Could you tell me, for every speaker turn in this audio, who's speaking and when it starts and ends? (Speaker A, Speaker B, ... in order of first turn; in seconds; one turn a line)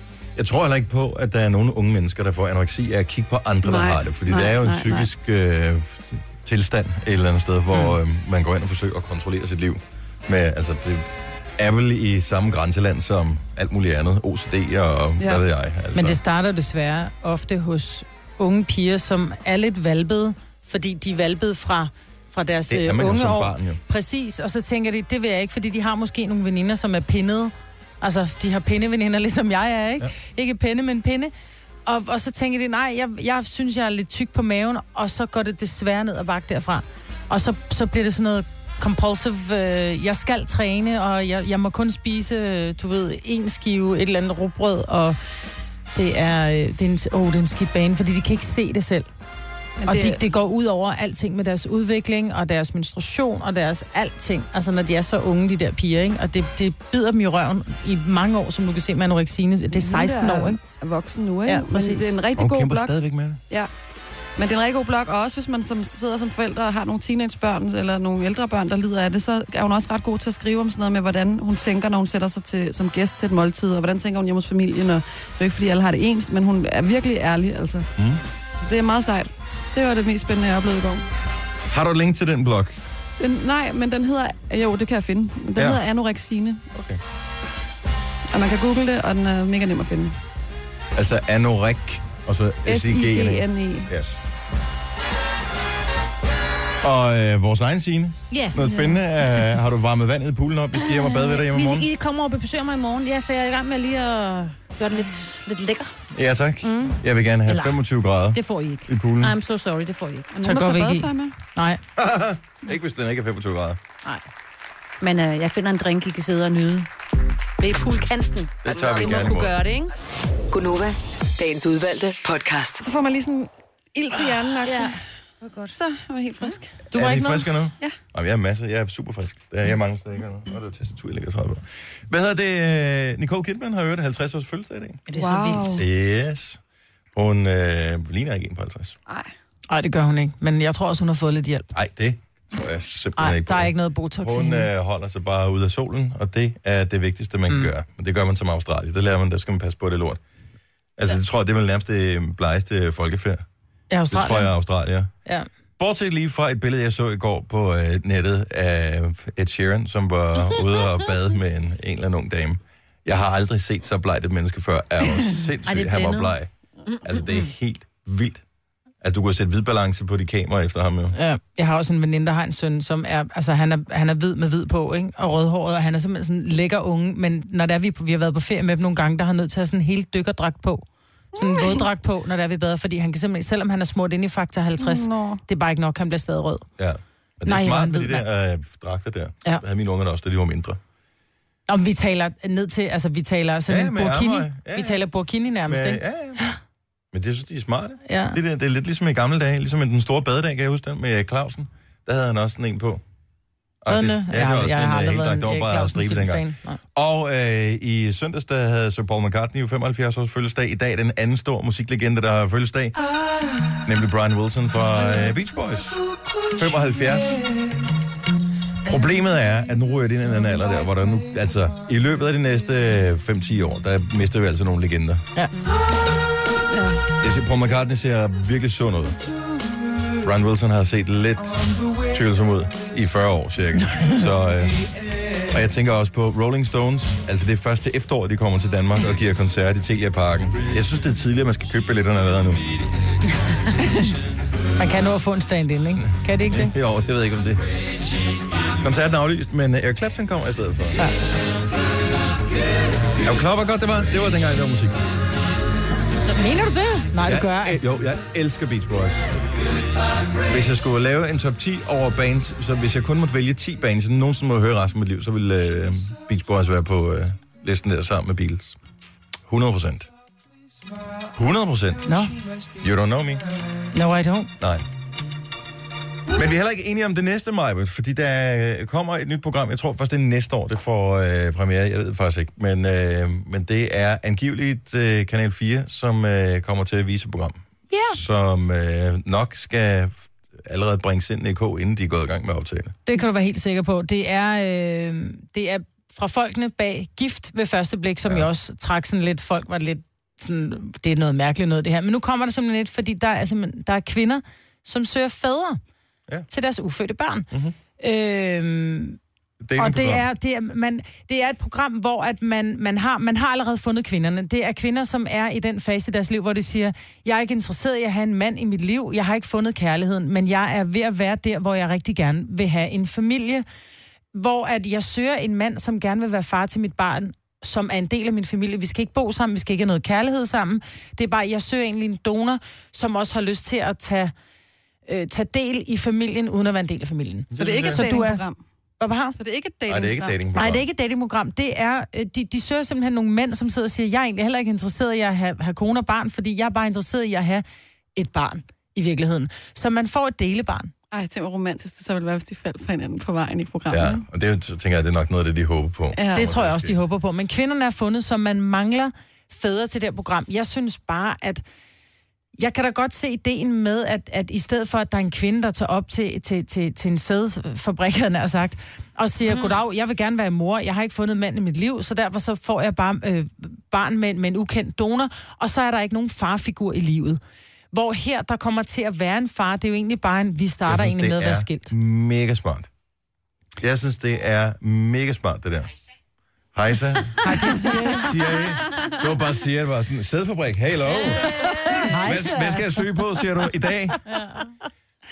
Speaker A: 0.4-16.2
Speaker B: 3.6-5.1
Speaker C: 15.9-31.3
Speaker A: 22.7-23.8
Speaker C: 31.9-45.2
Speaker C: 45.9-49.1
Speaker B: 49.8-50.2
Speaker C: 49.9-60.6
Speaker B: 59.7-63.0
Speaker C: 61.5-62.2
Speaker A: 62.4-63.4
Speaker B: 64.4-77.9
Speaker B: 78.6-81.0
Speaker A: 81.7-82.8
Speaker B: 83.2-86.7
Speaker A: 85.6-85.8
Speaker A: 86.7-87.0
Speaker B: 88.3-90.2
Speaker A: 91.0-94.2
Speaker B: 92.7-93.9
Speaker A: 96.8-101.9
Speaker D: 98.3-99.5
Speaker D: 100.8-105.9
Speaker A: 106.1-109.3
Speaker D: 106.6-107.8
Speaker D: 108.3-110.3
Speaker B: 110.3-111.3
Speaker C: 110.4-111.8
Speaker A: 112.0-113.8
Speaker D: 115.0-116.9
Speaker D: 117.6-119.9
Speaker A: 118.6-119.6
Speaker E: 120.5-122.8
Speaker B: 122.8-125.0
Speaker D: 124.6-125.8
Speaker B: 125.7-126.8
Speaker A: 126.9-135.0
Speaker C: 126.9-127.5
Speaker D: 135.1-135.8
Speaker B: 135.2-135.8
Speaker A: 135.8-136.6
Speaker A: 137.2-139.0
Speaker C: 139.7-141.7
Speaker A: 141.7-150.2
Speaker C: 143.2-144.7
Speaker A: 151.0-153.4
Speaker C: 153.9-154.5
Speaker A: 154.1-155.1
Speaker A: 155.8-166.5
Speaker D: 165.7-166.3
Speaker A: 167.0-168.4
Speaker A: 169.0-171.2
Speaker C: 171.1-186.7
Speaker B: 181.4-181.8
Speaker B: 184.8-185.4
Speaker A: 186.8-190.8
Speaker C: 187.4-188.3
Speaker C: 191.7-196.6
Speaker A: 193.7-195.0
Speaker A: 195.7-196.4
Speaker A: 197.1-203.0
Speaker C: 198.1-198.4
Speaker A: 203.8-213.0
Speaker C: 203.9-206.8
Speaker A: 213.8-217.6
Speaker A: 218.8-225.3
Speaker A: 227.2-229.2
Speaker A: 230.2-234.8
Speaker C: 233.9-234.2
Speaker A: 235.5-242.7
Speaker C: 244.8-246.8
Speaker A: 246.4-247.6
Speaker A: 248.8-251.0
Speaker A: 253.2-255.1
Speaker C: 256.2-257.8
Speaker A: 257.2-259.3
Speaker A: 260.5-268.8
Speaker A: 269.5-270.1
Speaker A: 271.3-272.3
Speaker C: 272.1-272.3
Speaker A: 272.8-273.5
Speaker C: 273.9-274.5
Speaker A: 274.6-274.9
Speaker A: 276.3-293.0
Speaker C: 287.9-288.2
Speaker C: 293.1-305.8
Speaker C: 306.5-307.5
Speaker A: 307.5-307.8
Speaker C: 308.0-309.2
Speaker A: 309.6-310.2
Speaker C: 309.8-323.6
Speaker C: 324.3-334.3
Speaker C: 335.1-338.4
Speaker A: 337.5-338.0
Speaker B: 337.6-338.6
Speaker C: 339.0-339.4
Speaker B: 339.4-340.4
Speaker A: 339.9-340.8
Speaker C: 340.5-347.6
Speaker C: 348.2-350.9
Speaker B: 351.1-354.2
Speaker A: 353.9-357.0
Speaker B: 356.1-356.5
Speaker C: 356.3-361.6
Speaker C: 362.6-377.4
Speaker D: 369.4-369.8
Speaker C: 377.9-381.9
Speaker A: 380.9-382.9
Speaker A: 383.8-385.9
Speaker A: 386.7-394.2
Speaker C: 387.4-388.4
Speaker D: 391.1-392.2
Speaker C: 392.0-393.2
Speaker D: 394.3-394.7